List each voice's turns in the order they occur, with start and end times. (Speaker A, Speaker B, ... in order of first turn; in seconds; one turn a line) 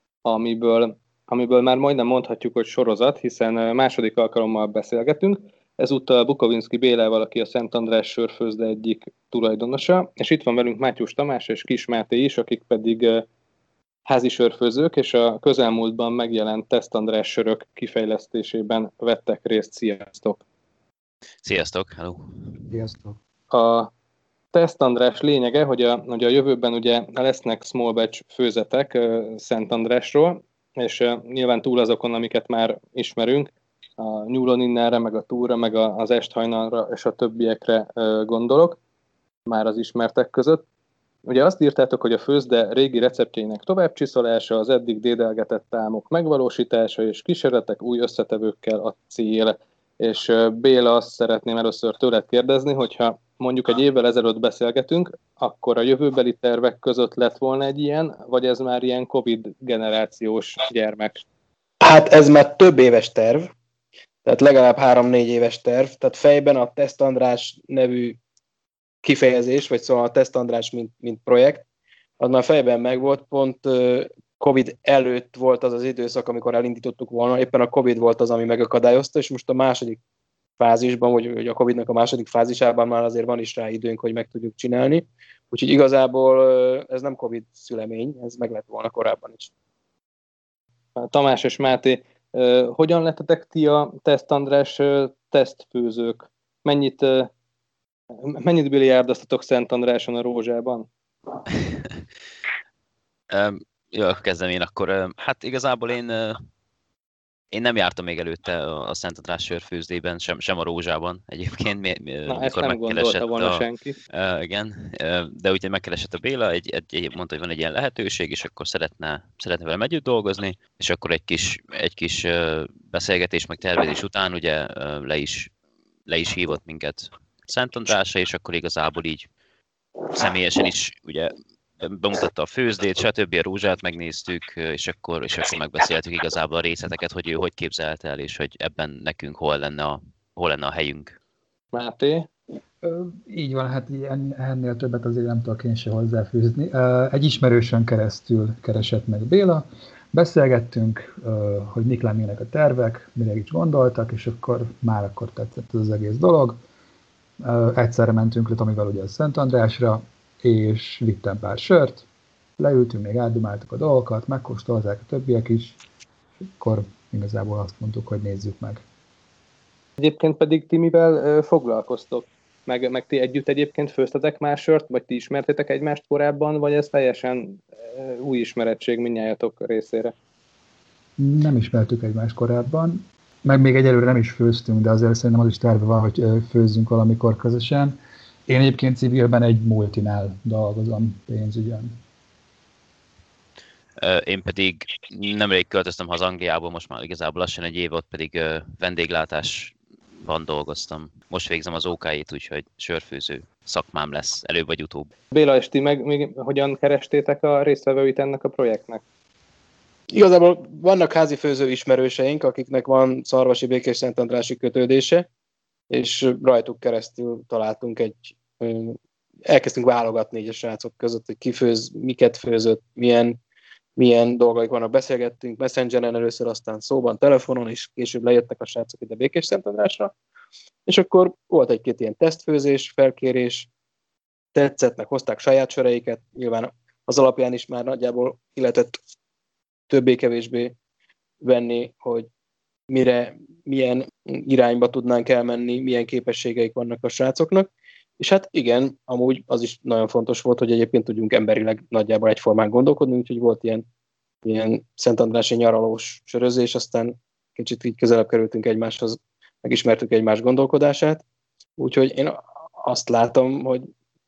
Speaker A: 0.2-13.2
Speaker A: 14.1-20.4
Speaker B: 21.4-22.6
Speaker C: 22.7-23.2
Speaker A: 23.5-23.9
Speaker A: 24.5-38.8
Speaker A: 39.5-40.6
Speaker A: 41.3-61.2
Speaker D: 61.8-63.5
Speaker D: 64.2-68.2
Speaker D: 69.0-71.7
Speaker D: 72.2-80.0
Speaker D: 80.6-89.5
Speaker A: 91.0-97.3
Speaker A: 98.2-100.9
Speaker B: 103.3-106.4
Speaker B: 107.5-125.5
Speaker A: 112.3-114.0
Speaker B: 126.1-129.3
Speaker B: 130.1-141.2
Speaker A: 141.7-142.3
Speaker C: 142.8-156.6
Speaker C: 157.4-162.1
Speaker C: 162.6-165.8
Speaker C: 166.6-168.8
Speaker A: 170.0-180.2
Speaker C: 181.2-192.0
Speaker B: 194.0-205.1
Speaker A: 205.3-209.0
Speaker D: 210.1-215.2
Speaker D: 215.9-223.4
Speaker D: 224.0-230.1
Speaker D: 230.9-233.7
Speaker D: 234.6-239.0
Speaker D: 239.9-240.7
Speaker D: 241.4-242.3
Speaker D: 242.9-247.7
Speaker D: 248.2-253.8
Speaker D: 254.4-261.2
Speaker D: 261.8-263.9